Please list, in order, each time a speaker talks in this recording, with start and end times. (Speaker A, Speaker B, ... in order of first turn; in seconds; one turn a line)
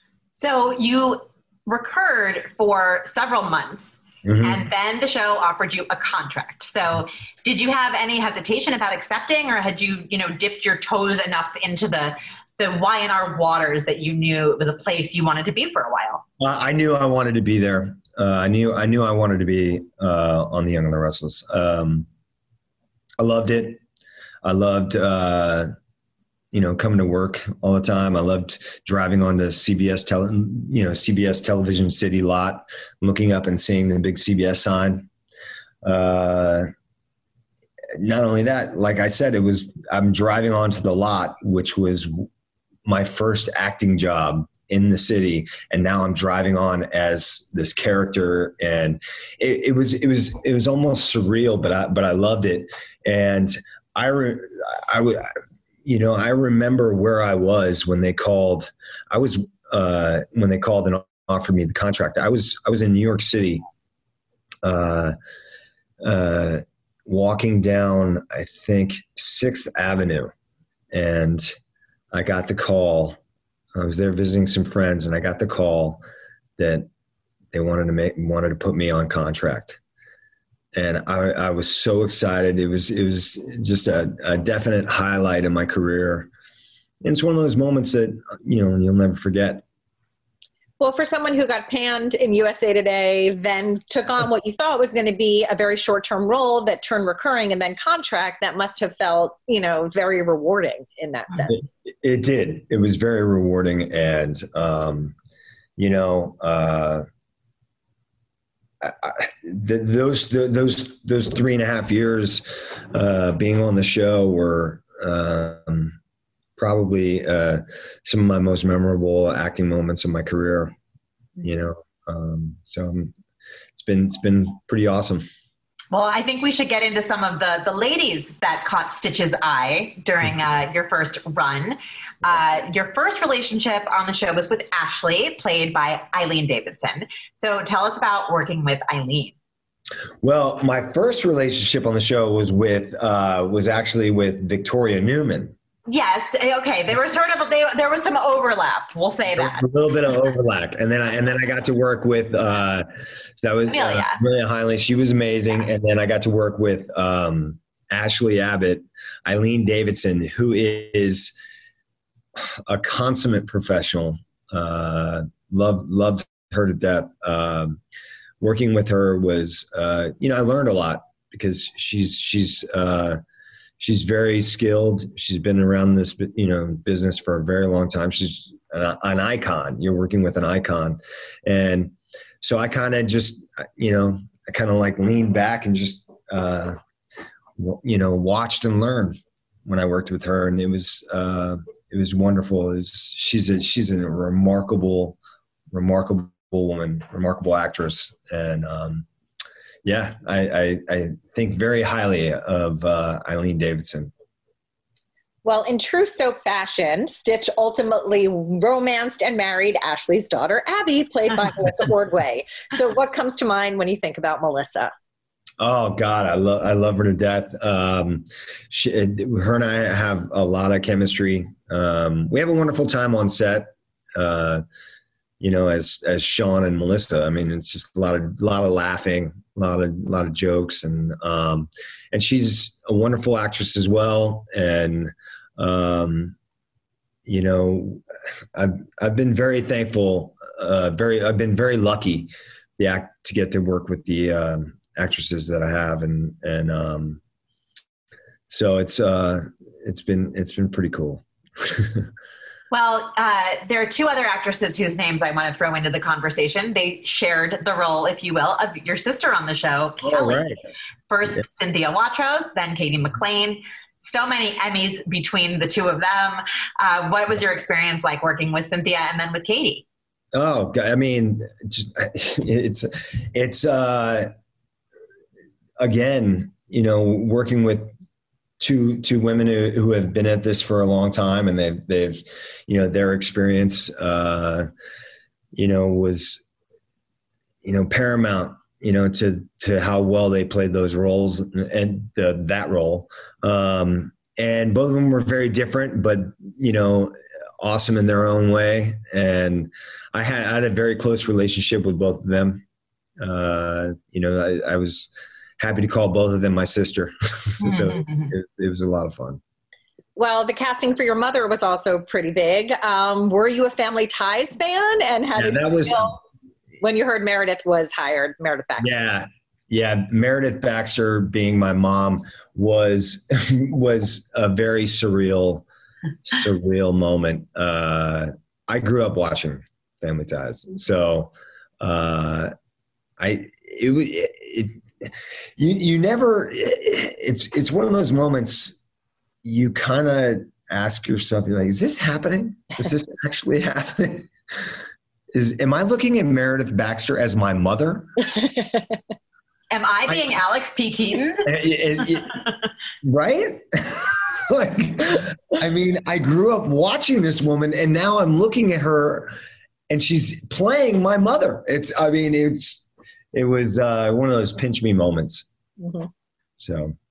Speaker A: 0.3-16.2
Speaker B: 4.2-4.7
Speaker B: 16.4-22.1
Speaker B: 23.2-23.8
Speaker B: 24.4-25.7
Speaker B: 26.5-35.1
Speaker B: 35.8-36.7
Speaker B: 37.9-42.3
Speaker B: 42.8-55.3
Speaker B: 55.8-63.6
Speaker B: 64.6-65.1
Speaker B: 66.0-70.3
Speaker B: 70.9-71.5
Speaker B: 72.1-73.2
Speaker B: 73.7-76.0
Speaker B: 76.6-76.9
Speaker B: 77.5-79.8
Speaker B: 80.7-86.3
Speaker B: 87.0-89.6
Speaker C: 90.8-101.6
Speaker B: 101.4-105.1
Speaker B: 105.8-107.0
Speaker B: 108.8-116.0
Speaker B: 116.6-120.7
Speaker B: 121.4-123.1
Speaker B: 123.7-125.2
Speaker A: 125.9-139.3
Speaker B: 140.2-145.5
Speaker A: 145.9-149.6
Speaker B: 149.3-161.3
Speaker A: 153.7-154.2
Speaker B: 162.3-167.8
Speaker B: 168.4-173.2
Speaker B: 173.8-186.8
Speaker B: 187.6-195.2
Speaker B: 195.7-199.1
Speaker B: 199.8-204.1
Speaker C: 205.4-214.9
Speaker B: 215.6-224.6
Speaker B: 225.4-236.3
Speaker B: 237.2-238.0
Speaker B: 238.5-247.2
Speaker B: 248.5-252.1
Speaker A: 252.7-260.5
Speaker B: 260.0-260.6
Speaker A: 261.1-269.8
Speaker B: 270.3-274.3
Speaker B: 275.8-277.9
Speaker B: 278.6-284.7
Speaker B: 285.5-286.4
Speaker B: 287.6-302.6
Speaker B: 303.2-309.4
Speaker A: 307.6-308.3
Speaker C: 310.1-316.2
Speaker B: 315.4-316.1
Speaker C: 316.8-318.9
Speaker B: 318.8-325.7
Speaker B: 326.2-332.5
Speaker B: 333.2-338.8
Speaker B: 339.4-344.7
Speaker B: 345.3-348.2
Speaker A: 349.7-351.5
Speaker B: 351.4-352.3
Speaker B: 353.0-359.4
Speaker B: 359.9-365.4
Speaker C: 365.8-366.1
Speaker B: 366.6-366.9